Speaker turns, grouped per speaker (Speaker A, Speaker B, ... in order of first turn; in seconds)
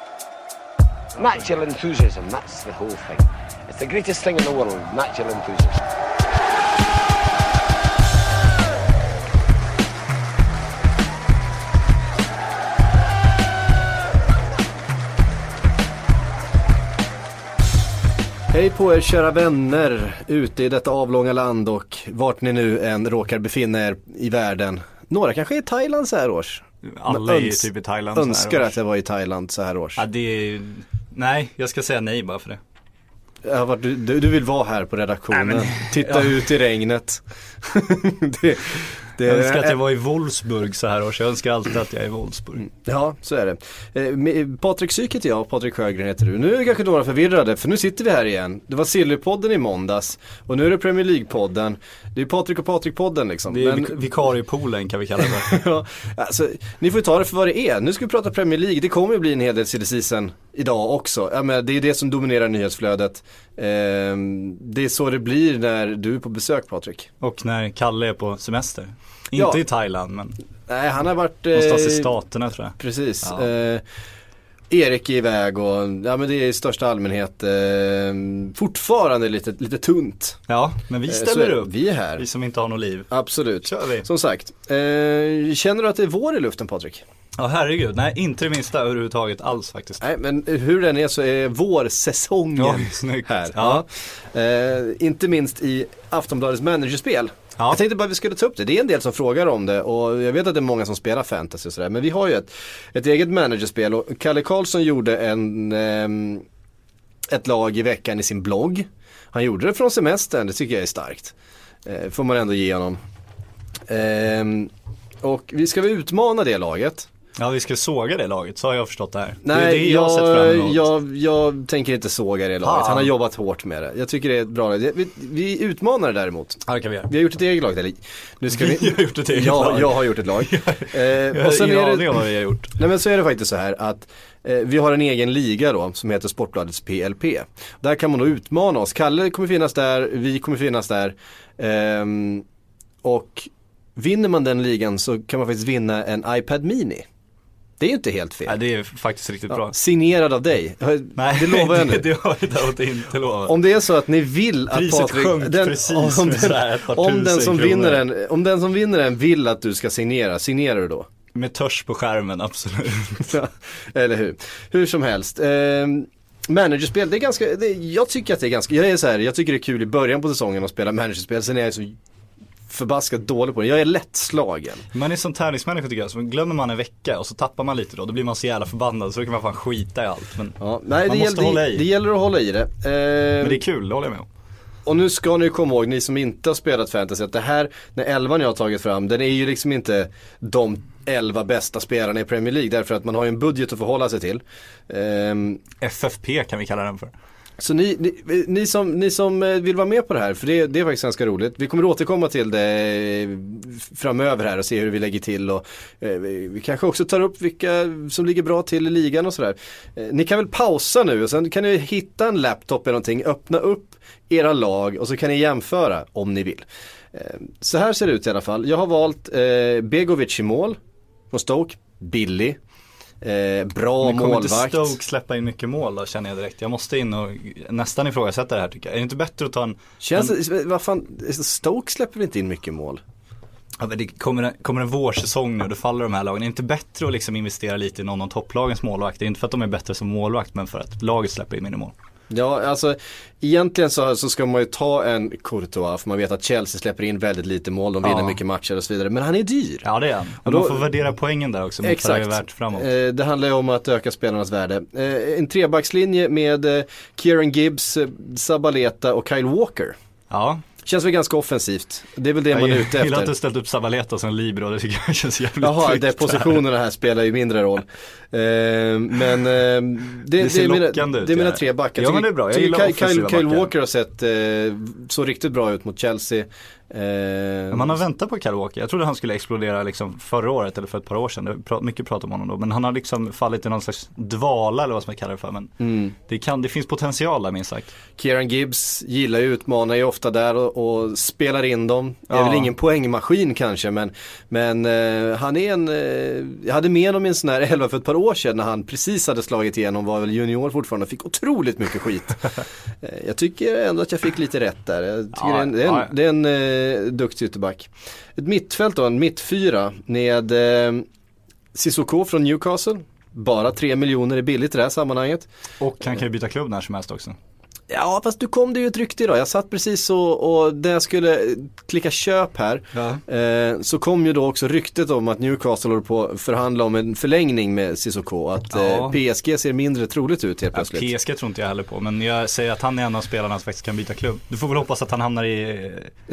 Speaker A: 1.2-5.8
Speaker B: 18.5-30.0, 33.4-39.8, 42.7-53.9, 55.2-67.1, 69.3-69.6, 70.7-72.1, 72.8-73.8, 74.7-80.4, 81.1-82.2, 83.1-87.0, 90.0-106.5, 107.3-111.3, 111.8-113.0, 113.9-114.7, 115.2-117.1, 119.4-132.2, 132.8-142.4, 143.0-147.1, 147.8-148.6, 149.5-152.1, 153.5-161.1, 163.3-172.0, 172.7-174.8, 180.6-183.6, 184.8-195.6, 197.6-220.8, 221.3-222.6, 223.2-225.0, 230.0-233.0, 242.3-249.9, 250.4-250.9, 251.8-259.9, 260.8-263.3, 265.6-278.0, 285.8-286.1, 288.2-311.1, 311.7-315.5, 317.9-331.1
Speaker C: 26.8-28.8, 30.0-32.6, 35.3-36.4, 39.2-42.7, 53.5-55.6, 67.2-70.3, 71.5-73.5, 80.5-83.1, 83.6-84.1, 87.4-90.0, 92.6-93.8, 117.4-120.8, 122.6-123.1, 126.7-127.1, 128.5-132.7, 148.5-149.8, 151.2-153.6, 154.7-158.1, 161.3-163.4, 174.9-181.9, 183.4-184.3, 195.8-197.1, 224.0-230.3, 233.8-241.9, 248.0-248.4, 249.8-252.9, 260.3-260.6, 262.5-266.6, 270.4-273.7, 277.7-285.8, 286.3-287.9, 292.3-292.7, 305.3-306.1, 315.8-317.4, 322.9-323.2, 328.7-329.2, 330.7-336.1